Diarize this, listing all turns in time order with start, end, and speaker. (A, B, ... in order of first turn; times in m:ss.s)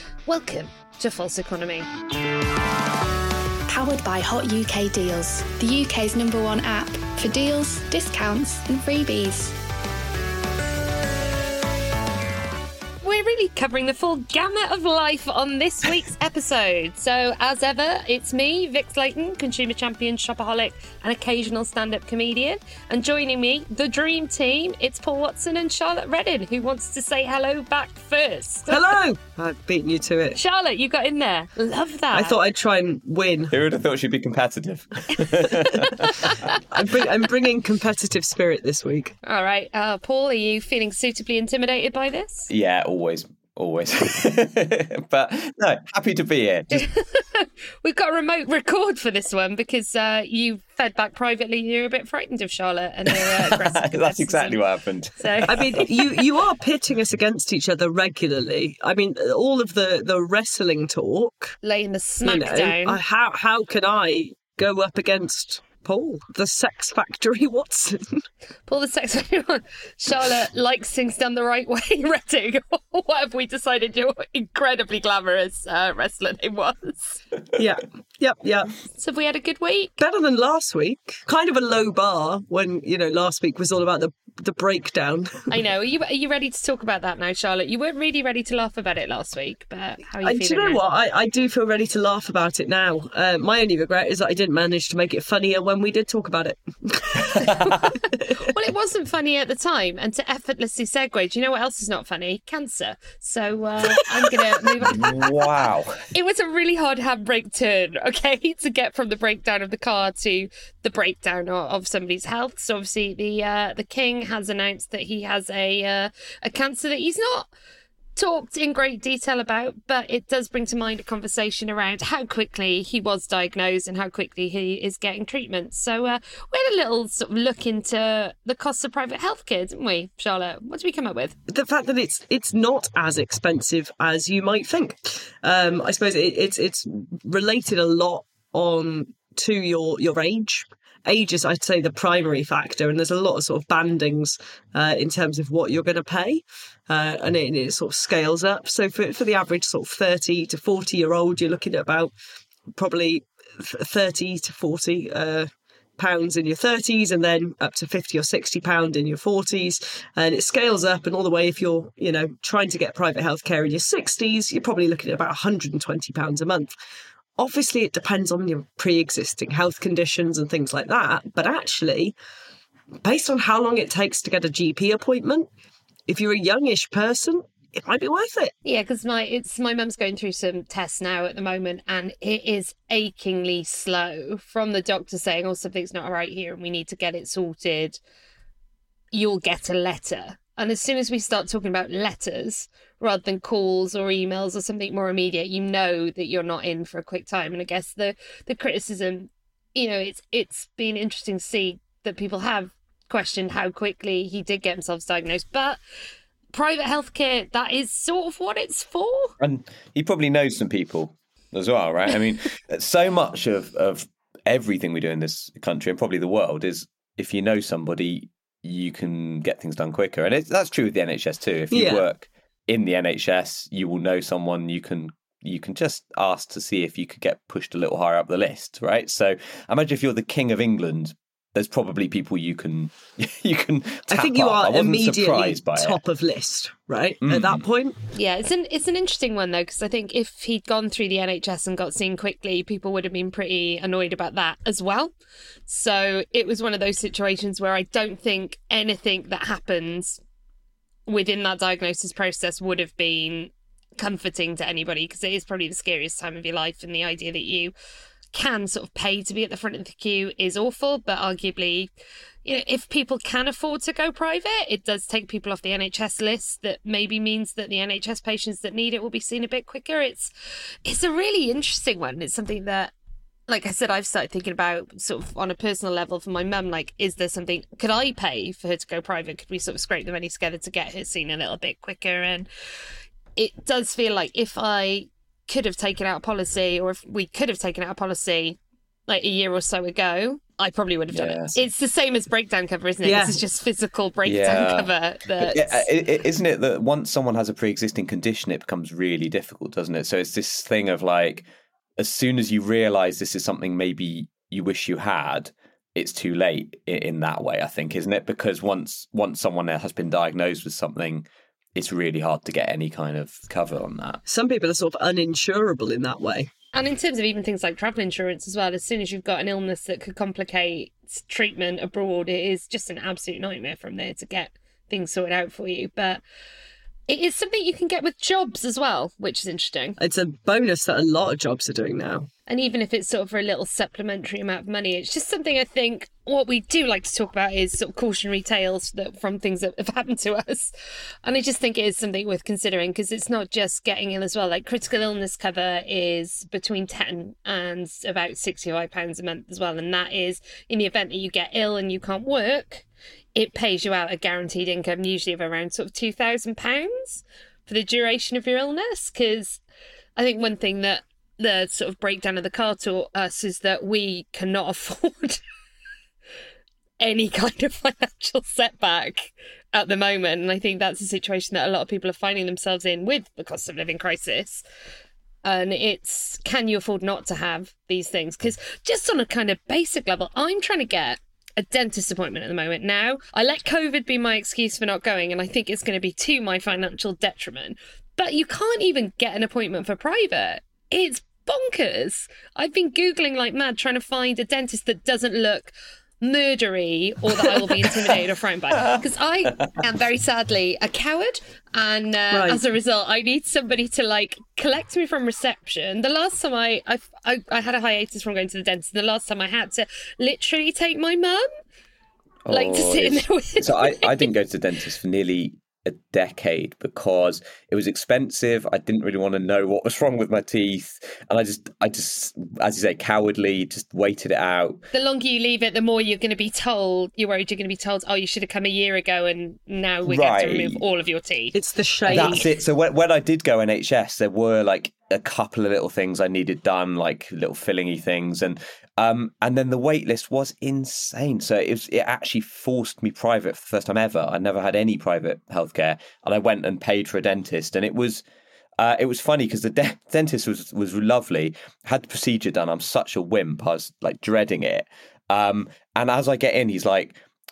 0:00.3-0:01.9 A
0:03.7-0:09.6 B
0:13.0-0:28.9 A
0:28.7-0:30.4 C
0:30.4-0:32.4 A
0:32.1-0:33.5 C
0:33.5-0:36.3 D
0:36.0-0:36.6 A
0:36.7-0:39.2 C
0:39.2-0:42.5 A
0:42.5-0:46.9 D
0:46.7-0:54.6 A
0:53.1-0:55.9 D
0:55.2-0:56.0 A
0:55.5-1:01.6 C
1:01.6-1:03.0 A
1:02.2-1:08.2 C
1:08.7-1:17.2 A
1:17.6-1:18.7 C
1:19.0-1:20.0 A
1:20.0-1:25.6 C
1:25.5-1:30.8 A
1:30.2-1:37.5 C
1:37.2-1:37.8 D
1:37.4-1:45.5 A
1:43.9-1:44.4 C
1:44.8-1:46.0 D
1:46.1-1:57.5 A
1:58.2-2:11.4 A
2:11.5-2:32.1 C
2:32.7-2:46.8 C
2:47.4-2:52.1 C
2:53.0-2:55.5 C
2:56.1-2:58.5 C
2:58.6-3:08.0 A
3:09.1-3:25.8 A
3:26.5-3:29.3 A
3:29.4-3:56.0 D
3:41.7-3:42.1 C
3:54.1-3:58.0 C
3:57.2-3:57.6 D
3:58.1-4:05.1 A
4:05.7-4:10.2 A
4:11.1-4:17.7 A
4:18.3-4:21.9 A
4:22.4-4:30.3 A
4:30.8-4:32.9 A
4:33.5-4:42.5 A
4:43.4-4:55.9 A
4:51.1-4:51.6 D
4:53.0-4:53.4 C
4:54.2-5:01.5 D
5:02.0-5:14.2 D
5:14.3-5:16.5 C
5:16.7-5:26.2 A
5:27.1-5:30.0 A
5:30.0-5:32.3 C
5:32.5-5:40.7 A
5:41.2-5:59.6 A
6:00.2-6:05.4 A
6:07.0-6:14.6 A
6:15.4-6:51.5 A
6:42.3-6:42.6 C
6:52.5-7:04.8 D
6:52.5-6:54.3 A
7:04.9-7:12.4 A
7:10.0-7:10.8 D
7:11.5-7:12.5 C
7:12.1-7:28.2 D
7:28.8-7:37.2 D